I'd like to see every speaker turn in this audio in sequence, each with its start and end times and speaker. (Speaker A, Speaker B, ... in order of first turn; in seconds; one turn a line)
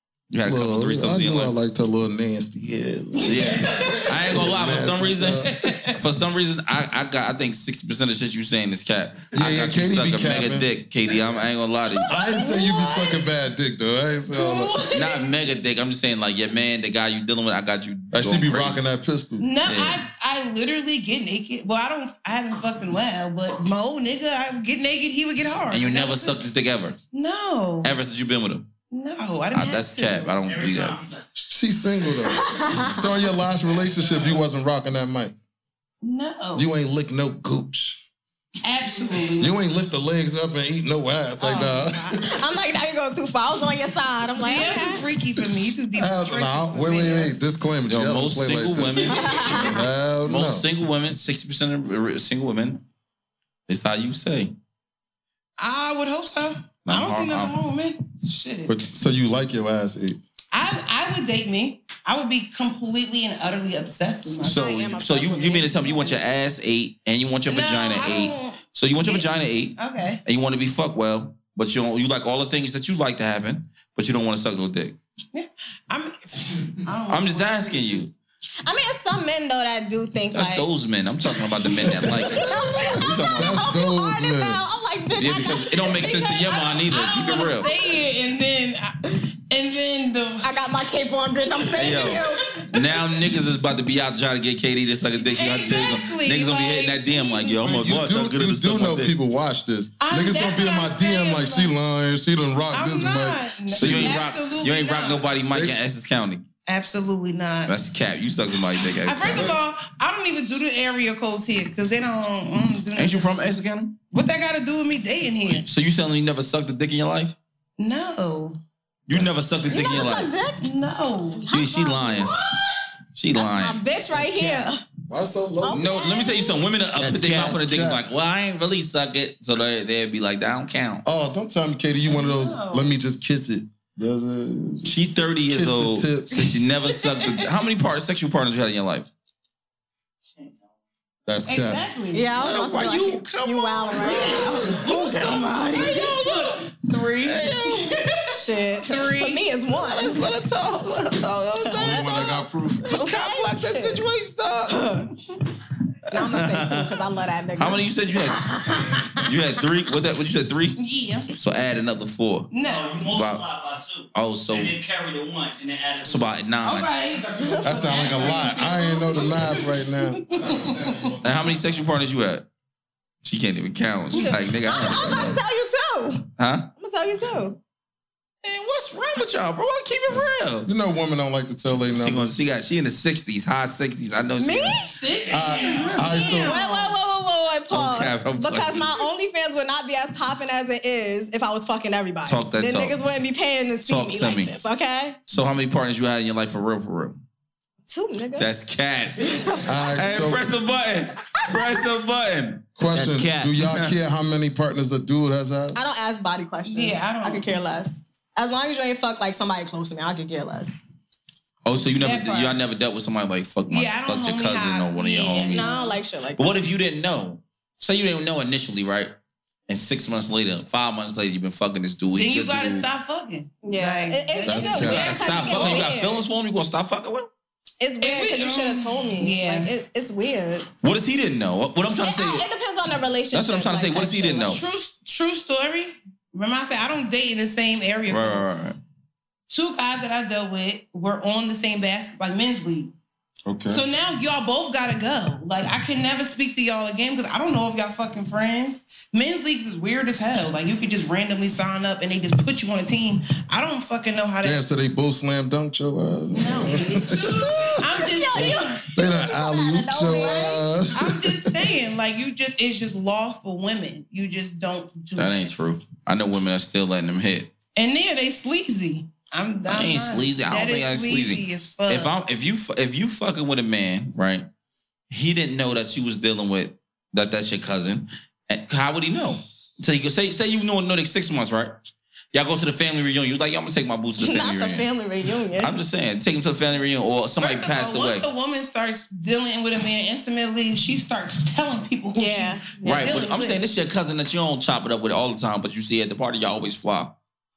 Speaker A: 0.3-1.5
Speaker B: 0.4-5.7
Speaker C: 3.2-4.0
Speaker A: 3.2-12.1
Speaker C: 5.5-6.0
Speaker B: 9.3-10.7
Speaker C: 12.0-13.3
Speaker B: 12.1-14.8
Speaker C: 14.3-15.3
Speaker A: 14.9-18.8
Speaker B: 18.1-19.5
Speaker C: 19.4-26.4
Speaker A: 19.6-20.0
Speaker A: 25.7-27.0
Speaker C: 27.1-27.9
Speaker A: 27.8-28.6
Speaker C: 28.9-30.4
Speaker A: 29.5-31.0
Speaker D: 30.4-31.2
Speaker B: 31.4-35.3
Speaker E: 32.2-33.1
Speaker C: 36.0-36.7
Speaker B: 36.5-38.0
Speaker C: 38.6-39.6
Speaker B: 39.4-42.5
Speaker E: 41.4-45.0
Speaker C: 44.4-47.4
Speaker B: 45.9-50.7
Speaker A: 47.9-52.8
Speaker E: 49.1-49.8
Speaker A: 53.7-54.5
Speaker C: 55.6-58.8
Speaker A: 56.8-57.5
Speaker B: 58.7-60.2
Speaker C: 60.5-65.0
Speaker A: 64.4-75.0
Speaker E: 64.4-66.2
Speaker C: 67.5-70.2
Speaker C: 75.3-78.0
Speaker A: 77.1-78.1
Speaker E: 78.6-80.7
Speaker A: 80.3-83.8
Speaker E: 81.9-86.8
Speaker B: 81.9-84.6
Speaker A: 85.2-87.7
Speaker C: 86.8-90.5
Speaker E: 87.3-87.9
Speaker E: 90.4-92.5
Speaker A: 91.8-99.1
Speaker C: 91.8-93.3
Speaker C: 95.2-97.6
Speaker B: 97.6-104.3
Speaker C: 100.0-101.7
Speaker C: 102.7-105.2
Speaker A: 103.7-106.4
Speaker C: 106.7-107.7
Speaker A: 107.7-109.6
Speaker C: 109.0-113.5
Speaker B: 109.2-109.5
Speaker A: 112.9-113.9
Speaker C: 114.1-115.7
Speaker A: 115.5-117.3
Speaker C: 117.8-118.6
Speaker A: 119.1-120.3
Speaker E: 119.7-120.7
Speaker C: 120.6-121.5
Speaker E: 121.3-122.3
Speaker A: 121.5-122.4
Speaker C: 122.2-122.7
Speaker A: 123.1-123.8
Speaker E: 123.3-124.8
Speaker B: 124.1-125.9
Speaker E: 125.6-126.6
Speaker A: 125.7-131.0
Speaker B: 127.0-128.0
Speaker B: 131.0-134.9
Speaker C: 132.1-132.9
Speaker A: 134.8-139.1
Speaker B: 135.5-136.4
Speaker C: 137.1-137.4
Speaker B: 141.2-141.8
Speaker C: 141.5-142.3
Speaker E: 142.1-146.5
Speaker A: 142.3-145.1
Speaker C: 144.1-149.5
Speaker A: 147.2-148.0
Speaker E: 148.3-150.2
Speaker A: 149.7-152.2
Speaker E: 151.6-154.1
Speaker B: 151.7-153.0
Speaker A: 152.8-154.8
Speaker E: 154.7-155.1
Speaker A: 156.1-157.0
Speaker E: 156.1-159.3
Speaker A: 157.6-158.5
Speaker A: 159.2-160.8
Speaker C: 160.8-161.3
Speaker A: 161.3-162.5
Speaker C: 162.5-163.1
Speaker D: 162.6-166.3
Speaker A: 163.1-163.4
Speaker A: 164.1-164.8
Speaker A: 166.0-166.9
Speaker C: 166.6-171.1
Speaker D: 167.1-168.6
Speaker B: 167.6-170.3
Speaker E: 168.7-169.6
Speaker D: 170.4-171.6
Speaker A: 171.2-172.4
Speaker A: 173.2-175.4
Speaker E: 174.1-177.6
Speaker A: 176.4-176.7
Speaker A: 178.4-180.7
Speaker B: 180.1-182.3
Speaker A: 181.9-184.8
Speaker E: 184.4-184.9
Speaker C: 184.8-186.9
Speaker D: 185.3-186.3
Speaker B: 185.3-186.6
Speaker E: 186.4-195.2
Speaker A: 187.7-189.1
Speaker A: 192.2-193.0
Speaker A: 193.8-194.5
Speaker A: 195.3-197.2
Speaker E: 197.9-198.5
Speaker A: 198.4-203.9
Speaker E: 199.2-200.3
Speaker B: 199.7-200.5
Speaker B: 202.8-205.8
Speaker E: 205.7-210.8
Speaker C: 206.6-207.5
Speaker A: 211.6-215.8
Speaker C: 212.0-212.6
Speaker C: 213.7-216.0
Speaker E: 215.5-216.6
Speaker A: 216.4-219.1
Speaker A: 219.7-222.8
Speaker C: 222.2-225.9
Speaker E: 223.6-226.2
Speaker B: 224.4-225.2
Speaker A: 224.8-227.3
Speaker E: 227.8-230.7
Speaker C: 228.0-229.7
Speaker A: 230.8-232.4
Speaker E: 232.0-234.6
Speaker A: 233.3-234.6
Speaker C: 234.4-238.4
Speaker A: 238.1-238.8
Speaker C: 239.5-242.9
Speaker B: 243.4-243.8
Speaker C: 243.7-254.6
Speaker B: 254.4-261.8
Speaker C: 256.3-258.9
Speaker E: 257.6-260.7
Speaker C: 260.9-265.5
Speaker A: 265.1-267.5
Speaker C: 267.7-272.1
Speaker A: 269.7-274.4
Speaker A: 275.1-281.7
Speaker A: 282.3-284.9
Speaker E: 284.2-285.7
Speaker A: 285.6-288.3
Speaker C: 287.4-293.7
Speaker E: 292.1-293.2
Speaker A: 292.8-297.1